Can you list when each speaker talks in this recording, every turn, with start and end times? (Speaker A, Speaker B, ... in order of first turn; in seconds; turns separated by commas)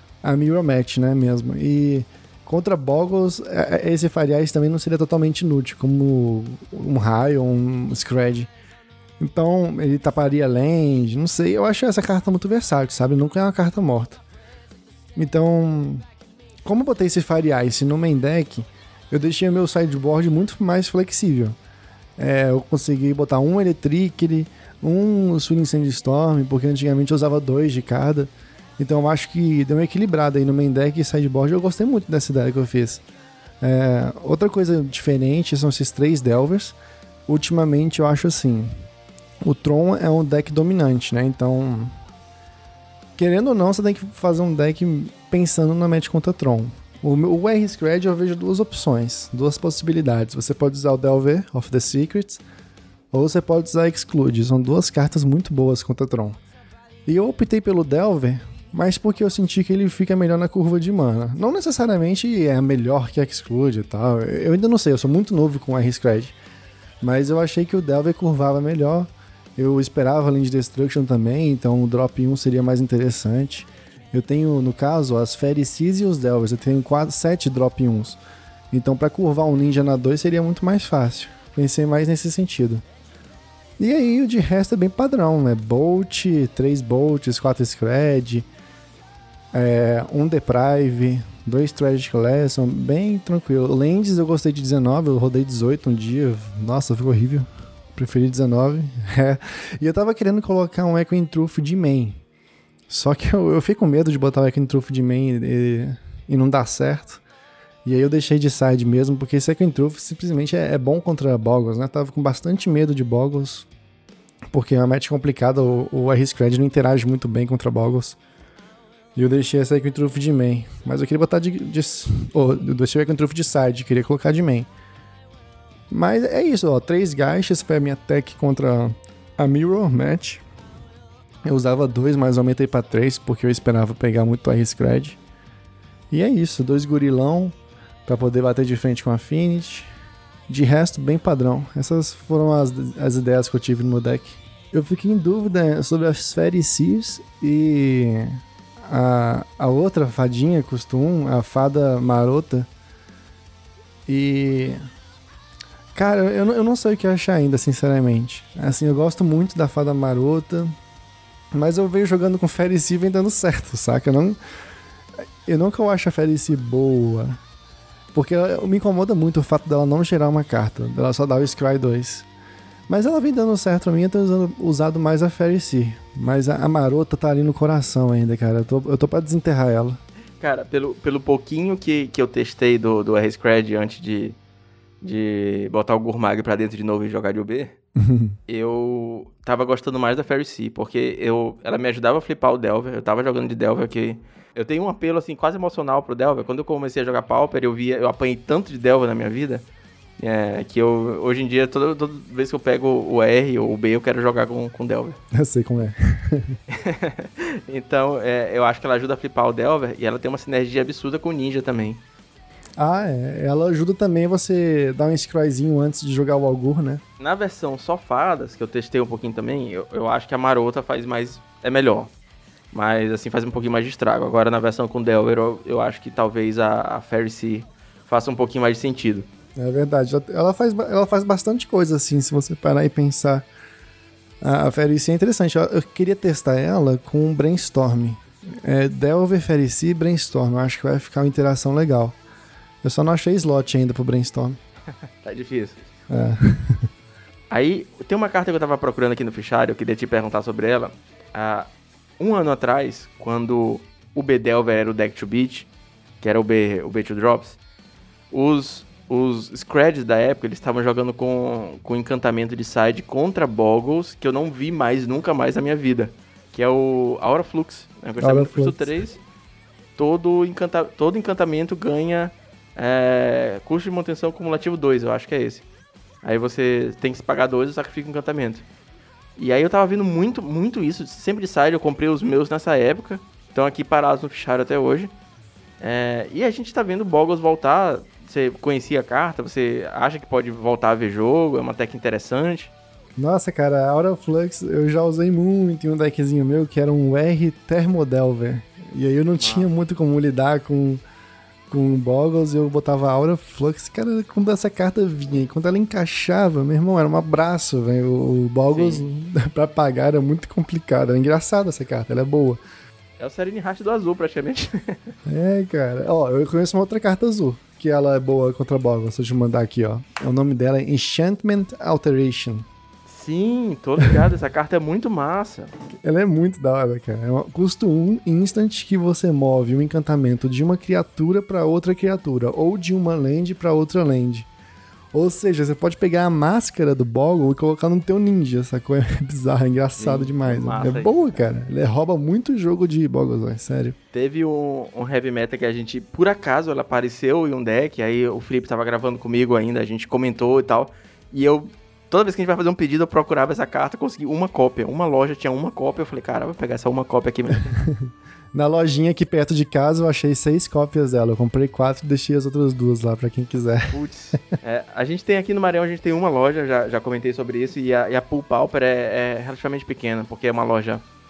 Speaker A: 0.2-8.5, Speaker A: 9.2-14.2, Speaker A: 15.2-16.1, Speaker A: 16.6-21.6, Speaker A: 22.2-33.0, Speaker A: 33.6-36.8, Speaker A: 37.3-38.8, Speaker A: 39.5-42.0, Speaker A: 43.2-52.4, Speaker A: 53.1-56.4, Speaker A: 57.1-66.4, Speaker A: 67.0-78.2, Speaker A: 78.7-82.8, Speaker A: 83.8-88.5, Speaker A: 89.5-102.2, Speaker A: 102.9-107.2, Speaker A: 107.8-113.7, Speaker A: 114.5-118.2, Speaker A: 119.2-124.7, Speaker A: 125.9-130.4, Speaker A: 131.5-135.2, Speaker A: 136.1-137.6, Speaker A: 138.1-139.9, Speaker A: 140.5-152.7, Speaker A: 154.1-154.8, Speaker A: 155.9-160.8, Speaker A: 161.5-164.4, Speaker A: 165.4-167.4, Speaker A: 168.1-172.3, Speaker A: 172.9-180.0, Speaker B: 180.4-184.4, Speaker B: 185.0-187.7, Speaker A: 188.0-188.3, Speaker B: 188.5-199.7, Speaker B: 200.2-205.2, Speaker A: 205.3-206.6, Speaker B: 206.7-212.0, Speaker A: 212.8-217.0, Speaker B: 217.2-222.1, Speaker B: 222.7-229.3, Speaker A: 229.6-233.5, Speaker A: 234.4-242.2, Speaker A: 242.8-244.6, Speaker B: 245.2-245.8, Speaker A: 246.1-246.9, Speaker B: 247.5-255.7, Speaker B: 256.2-257.6, Speaker B: 258.3-269.2, Speaker A: 268.2-268.9, Speaker B: 270.0-275.6, Speaker B: 276.2-278.7, Speaker B: 279.4-285.1, Speaker B: 285.8-292.7, Speaker A: 293.2-301.0, Speaker B: 299.4-299.7, Speaker A: 301.7-312.6, Speaker B: 308.7-309.1, Speaker B: 313.2-315.1, Speaker A: 315.3-322.7, Speaker B: 323.1-325.7, Speaker A: 326.0-334.5, Speaker A: 335.1-344.0, Speaker B: 340.0-341.4, Speaker B: 344.1-357.8, Speaker A: 357.9-364.4, Speaker B: 363.9-371.0